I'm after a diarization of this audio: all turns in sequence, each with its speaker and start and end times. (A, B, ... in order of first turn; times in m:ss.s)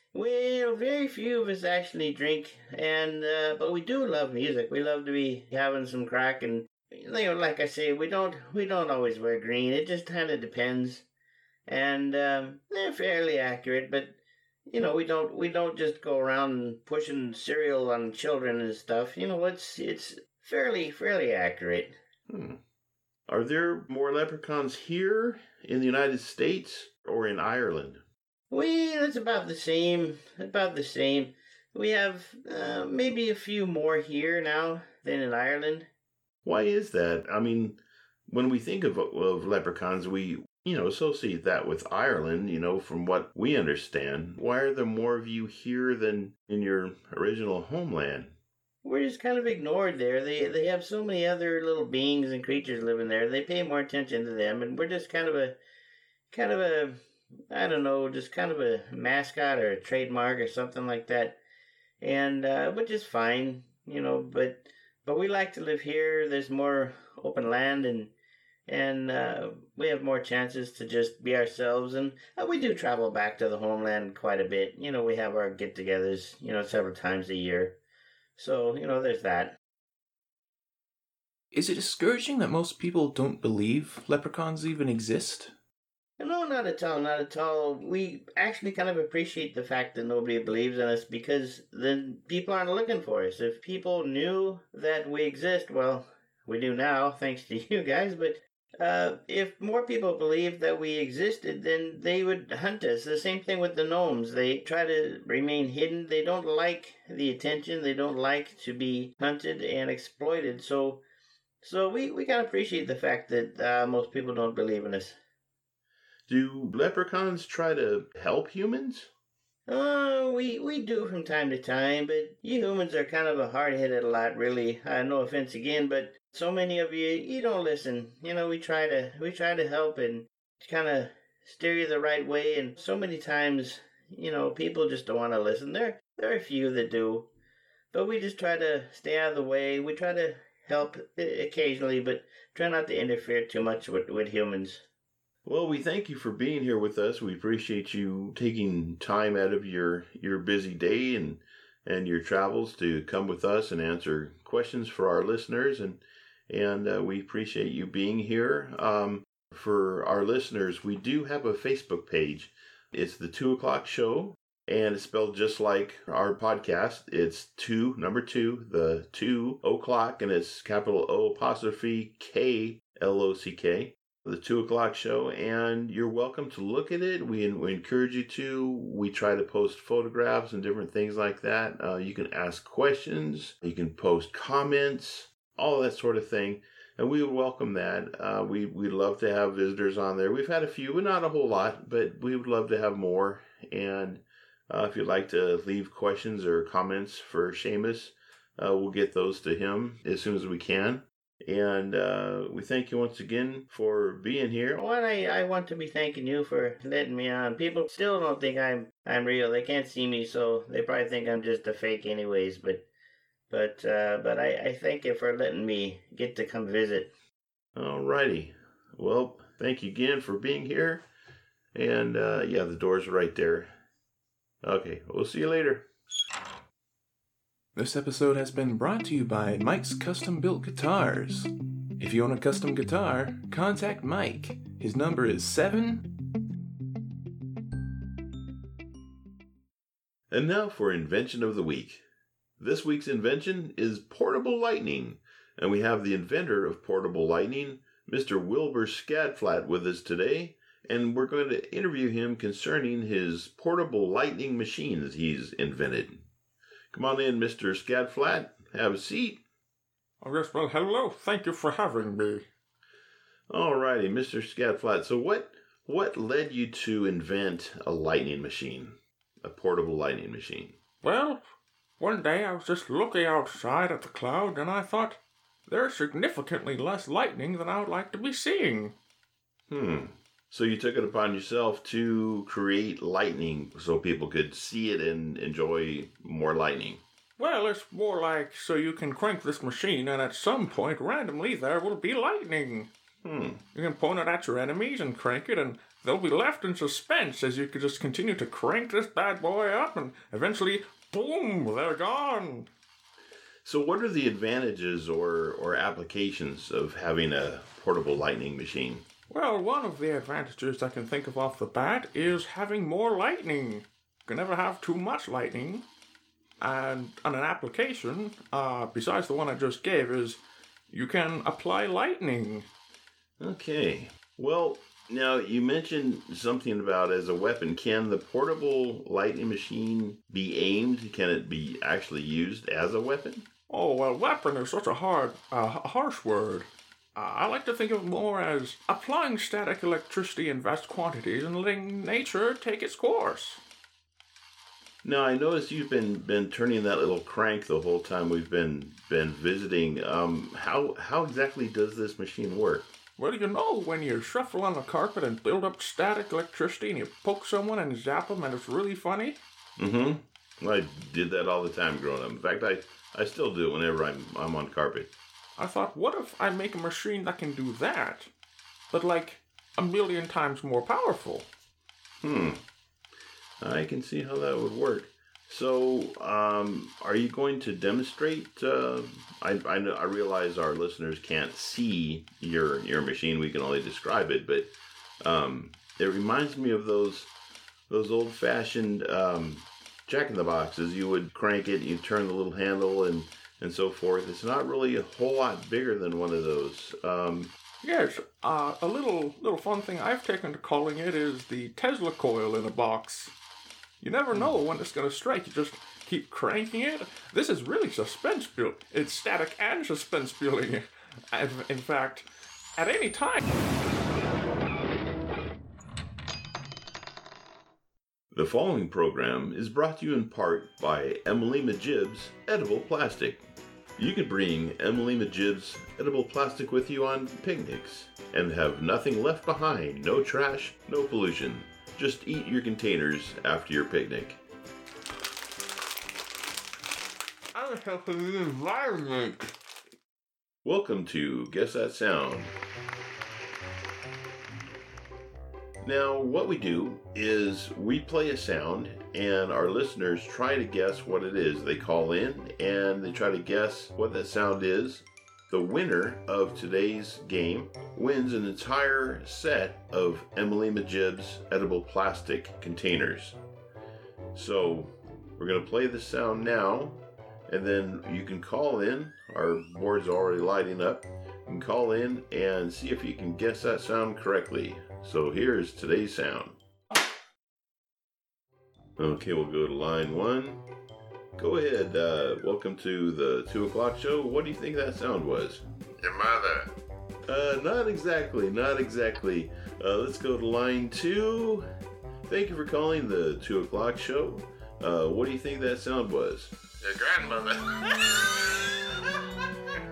0:00.1-0:11.1 A
0:11.7-0:14.2 A
0:14.7-0:22.0 A
0:22.3-0:22.6 B
0:23.3-0:28.0 B
0:28.5-0:35.9 A
0:36.4-0:48.4 B
0:48.8-0:55.6 A
0:56.3-0:57.0 A
0:57.5-1:01.4 A
1:02.0-1:08.1 A
1:08.7-1:17.8 A
1:18.4-1:19.6 A
1:21.5-1:25.5 C
1:26.2-1:51.0 A
1:51.6-1:55.2 A
1:56.3-1:59.1 B
1:59.7-2:17.3 A
2:17.9-2:24.8 A
2:25.4-3:24.8 B
3:24.8-3:32.8 A
3:33.5-3:37.1 A
3:37.8-3:41.0 B
3:41.7-3:43.7 B
3:44.6-3:45.9 B
3:47.8-3:56.1 C
4:00.3-4:02.0 B
4:02.6-4:16.2 B
4:16.9-4:19.4 B
4:20.2-4:22.5 D
4:23.5-4:30.8 B
4:31.0-4:31.4 D
4:32.0-4:39.0 D
4:39.7-4:47.0 B
4:47.4-4:52.9 D
4:53.2-4:53.6 B
4:53.7-5:02.7 D
5:03.6-5:09.1 B
5:09.3-5:15.9 D
5:16.6-5:22.7 D
5:23.4-5:33.5 B
5:33.7-5:43.6 D
5:45.0-5:52.9 B
5:53.2-5:59.4 D
5:59.8-6:05.1 B
6:05.6-6:08.3 D
6:08.9-6:11.5 D
6:12.2-6:12.6 B
6:13.6-6:27.3 B
6:27.9-6:37.5 B
6:37.8-6:43.3 D
6:44.0-6:52.3 D
6:52.8-6:53.4 D
6:58.3-7:03.4 B
7:04.0-7:14.4 B
7:17.6-7:19.5 D
7:20.6-7:22.5 B
7:25.8-7:43.4 B
7:44.4-7:56.6 B
7:59.0-8:00.6 B
8:01.4-8:05.6 B
8:06.0-8:06.7 E
8:07.3-8:11.7 B
8:12.3-8:16.6 B
8:16.8-8:18.5 E